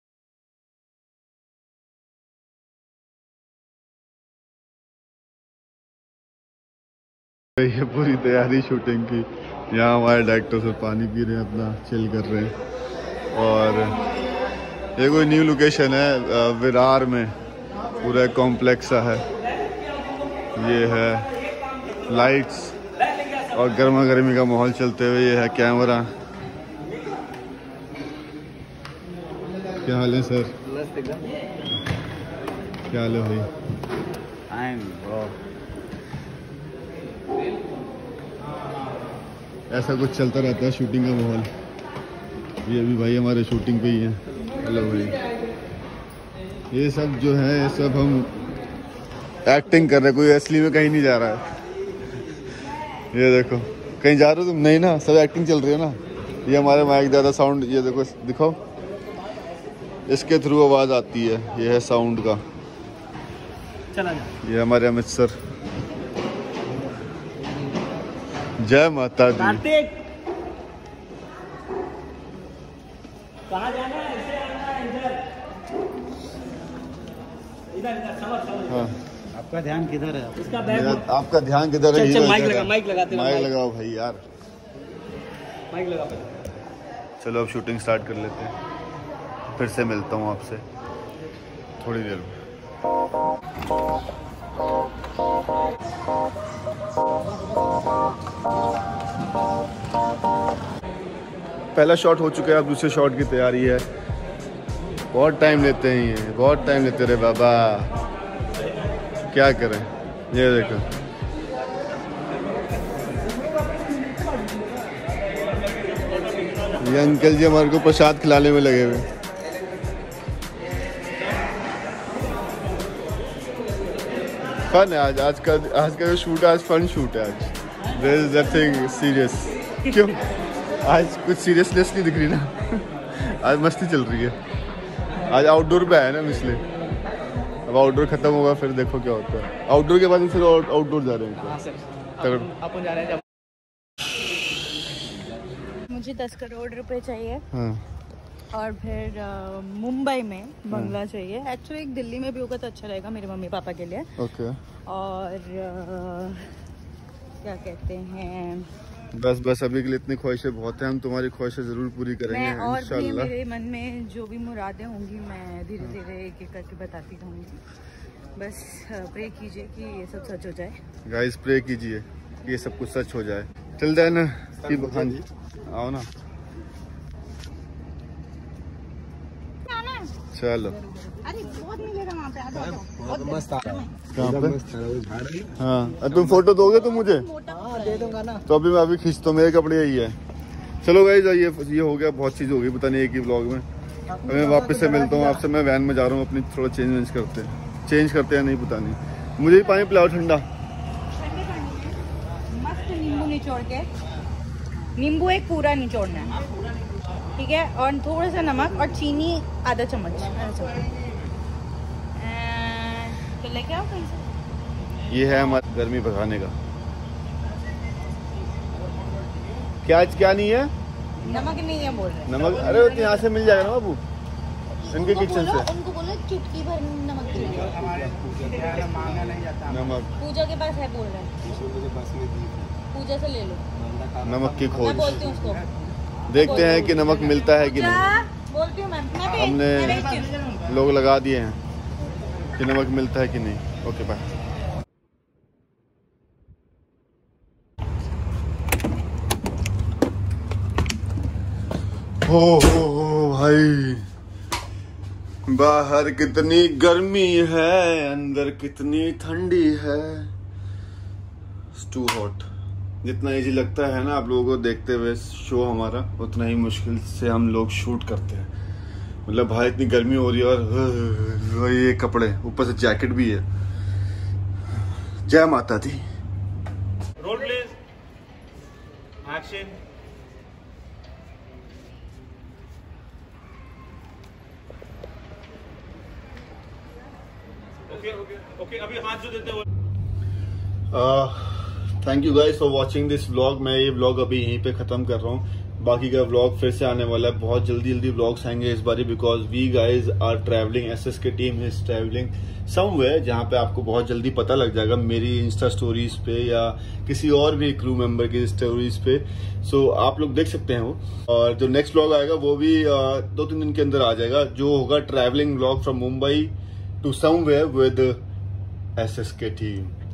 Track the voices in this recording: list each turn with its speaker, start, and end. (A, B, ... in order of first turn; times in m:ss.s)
0:07.6-0:12.5 A
0:13.3-0:14.0 A
0:15.0-0:17.3 A
0:18.0-0:19.2 A
0:20.5-0:21.3 A
0:22.0-0:22.8 A
0:23.5-0:26.1 A
0:29.8-0:30.5 A
0:30.6-0:31.3 B
0:32.9-0:33.5 A
0:34.5-0:35.3 B
0:39.7-0:41.5 A
0:42.6-0:45.2 A
0:46.7-0:48.3 A
0:49.4-0:51.4 A
0:53.0-0:58.6 A
1:00.1-1:02.4 A
1:04.4-1:05.4 A
1:08.6-1:09.8 A
1:18.6-1:19.0 A
1:19.4-1:20.4 B
1:20.5-1:24.2 A
1:27.2-1:28.5 A
1:29.5-1:30.6 A
1:31.8-1:32.4 A
1:41.7-1:43.8 A
1:45.1-1:47.9 A
1:49.2-1:50.9 A
1:56.8-1:59.1 A
2:04.7-2:10.2 A
2:10.8-2:14.4 A
2:15.2-2:16.6 A
2:17.6-2:21.6 A
2:22.2-2:22.6 A
2:25.9-2:27.4 C
2:27.5-2:27.8 A
2:28.5-2:34.1 C
2:30.7-2:31.0 A
2:34.2-2:34.6 A
2:34.8-2:36.5 C
2:37.4-2:38.7 C
2:39.1-2:43.3 A
2:42.3-2:47.6 C
2:48.4-2:50.8 C
2:51.0-2:56.1 A
2:54.6-2:55.1 B
2:59.6-3:00.1 C
3:00.3-3:00.8 A
3:01.2-3:03.9 C
3:03.0-3:05.6 B
3:04.1-3:04.6 A
3:05.6-3:07.3 A
3:06.4-3:08.4 C
3:08.4-3:10.2 A
3:10.8-3:13.6 A
3:14.2-3:20.4 A
3:21.1-3:22.0 C
3:22.5-3:23.9 C
3:25.0-3:26.4 C
3:27.4-3:30.9 C
3:32.1-3:34.3 C
3:35.1-3:36.5 A
3:39.8-3:40.7 A
3:41.2-3:43.3 C
3:42.3-3:44.0 A
3:44.8-3:47.9 C
3:44.9-3:45.7 A
3:47.5-3:49.6 B
3:49.6-3:50.1 A
3:50.2-3:51.3 C
3:51.4-3:52.8 B
3:52.9-3:53.6 C
3:53.8-3:55.6 B
3:54.2-3:55.3 A
3:54.8-3:55.7 C
3:56.3-3:58.1 A
3:56.3-4:00.4 C
3:59.3-4:01.6 A
4:02.5-4:04.2 A
4:12.2-4:14.0 A
4:15.5-4:20.3 A
4:21.7-4:22.4 A
4:23.0-4:28.5 A
4:29.2-4:33.4 A
4:35.2-4:36.0 A
4:37.3-4:37.7 D
4:39.2-4:39.7 D
4:48.1-4:49.4 D
4:50.9-5:18.2 A
5:19.0-5:19.9 A